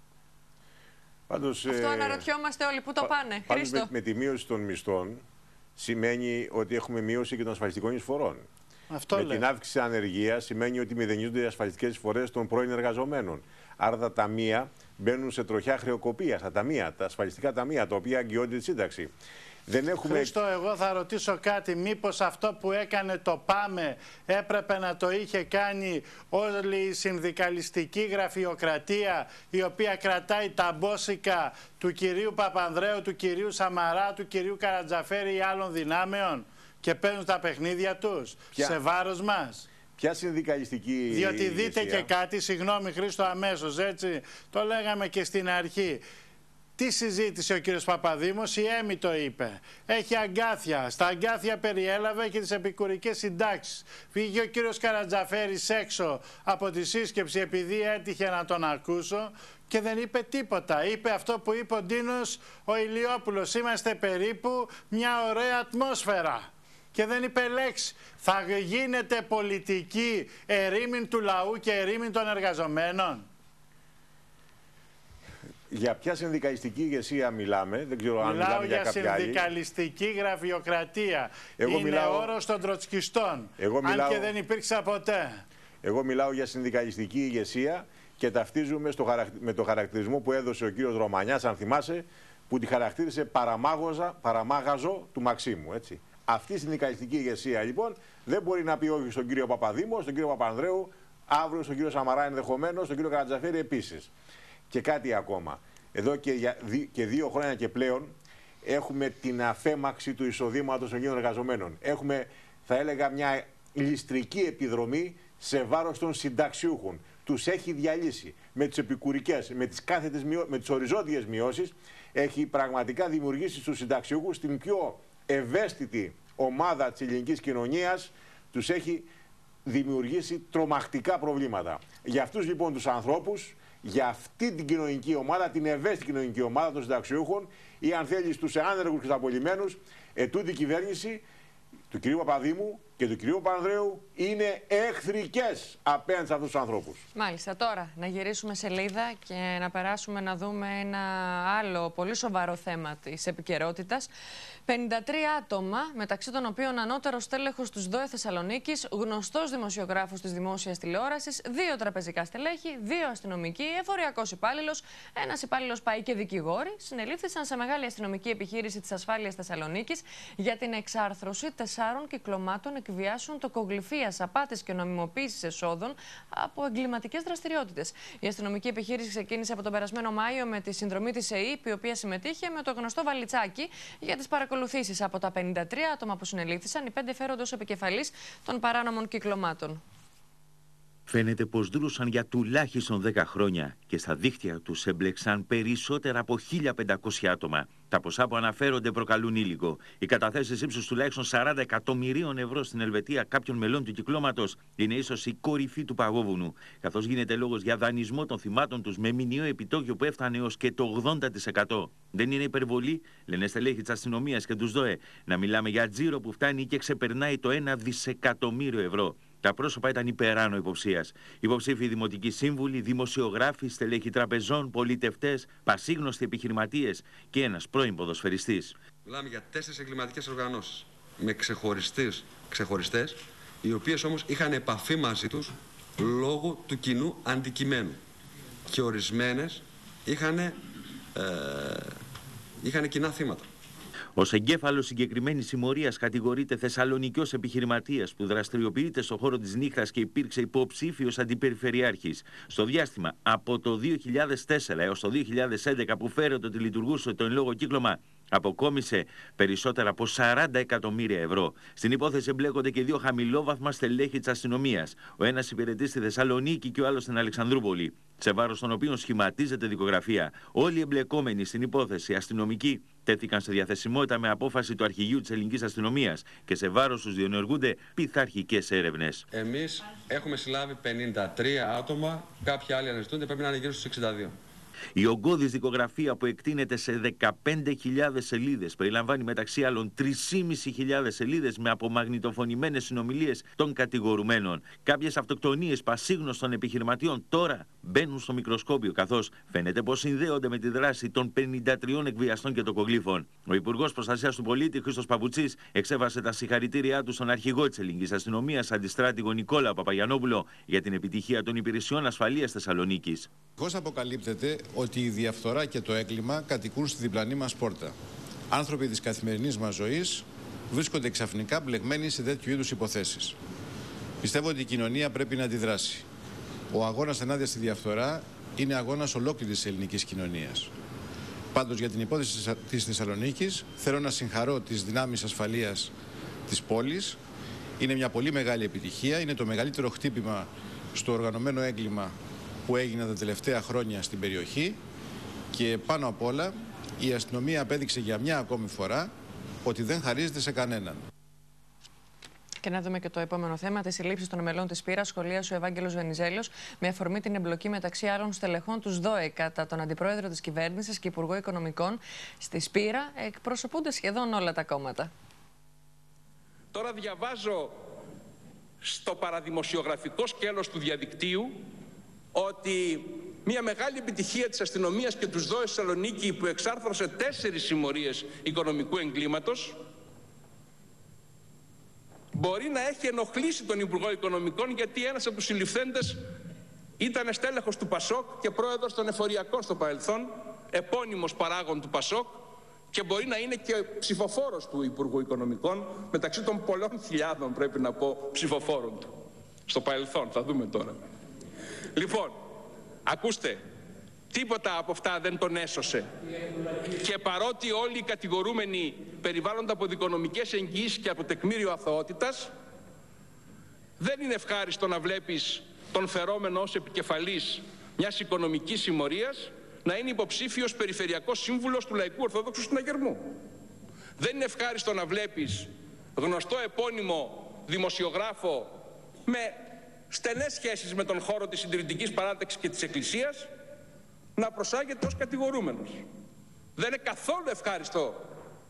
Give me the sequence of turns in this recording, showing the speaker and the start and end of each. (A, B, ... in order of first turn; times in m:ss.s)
0:01.3-0:02.3 A
0:01.7-0:03.9 B
0:03.0-0:05.2 A
0:05.8-0:08.4 A
0:08.9-0:09.4 C
0:09.1-0:19.1 A
0:19.7-0:20.3 A
0:20.1-0:39.7 C
0:40.0-0:42.1 A
0:41.1-0:46.0 C
0:46.8-1:13.2 C
1:15.7-1:19.4 A
1:18.2-1:25.4 C
1:21.6-1:22.3 A
1:23.6-1:24.3 A
1:25.8-1:44.1 A
1:44.7-2:09.1 A
2:09.6-2:21.2 A
2:21.9-2:27.0 A
2:27.1-2:34.1 B
2:34.7-3:09.8 B
3:11.1-3:48.8 D
3:49.0-3:58.0 E
3:58.7-4:00.6 E
4:01.1-4:02.0 E
4:02.6-4:03.5 E
4:04.2-4:39.2 D
4:39.3-4:44.4 E
4:45.0-5:13.3 D
5:13.6-5:17.9 F
5:18.5-5:23.4 F
5:24.2-5:26.0 F
5:26.7-5:30.7 F
5:31.5-5:35.9 F
5:36.5-5:37.2 F
5:37.8-5:42.1 F
5:42.6-5:44.8 F
5:45.5-5:49.1 F
5:49.6-5:51.0 F
5:52.6-6:05.1 B
6:06.7-6:07.9 G
6:08.8-6:11.6 G
6:12.3-6:19.8 G
6:22.3-6:26.2 G
6:27.0-6:39.2 G
6:39.7-6:41.0 G
6:41.9-6:42.4 G
6:43.0-6:43.6 G
6:44.3-6:46.1 G
6:46.9-6:52.5 G
6:54.0-7:03.4 G
7:04.2-7:13.5 G
7:14.4-7:16.0 G
7:16.8-7:18.3 G